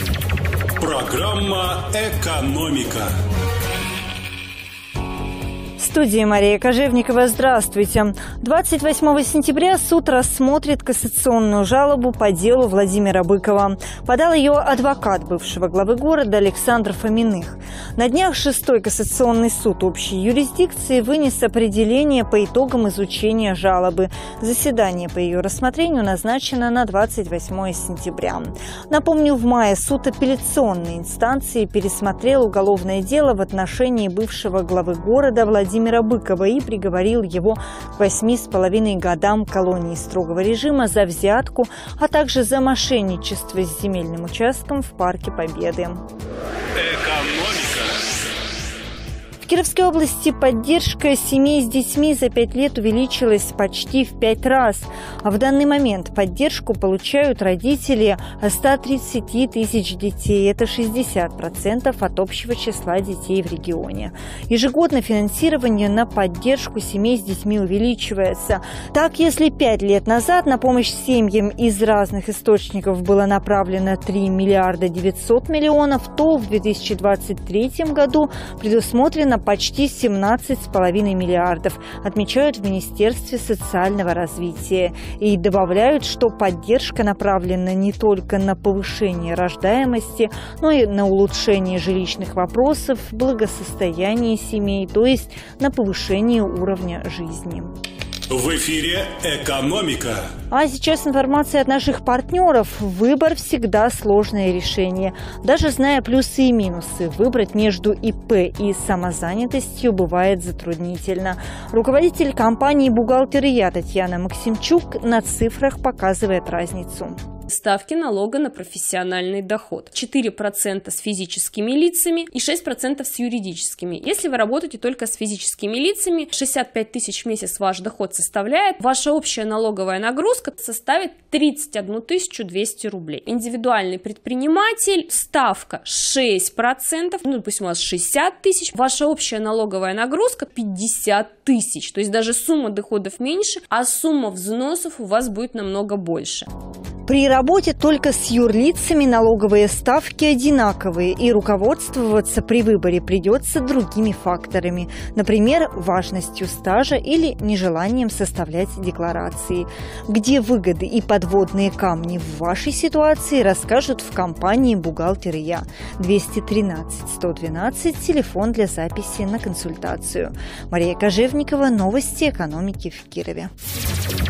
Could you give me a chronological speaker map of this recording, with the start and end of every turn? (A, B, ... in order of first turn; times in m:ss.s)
0:00.8-0:03.1 A
0:05.8-0:46.0 B
0:46.7-0:47.9 A
0:49.4-1:37.7 B
1:38.3-1:40.3 A
1:40.5-1:57.2 B
1:57.5-2:26.5 C
2:27.1-2:53.5 B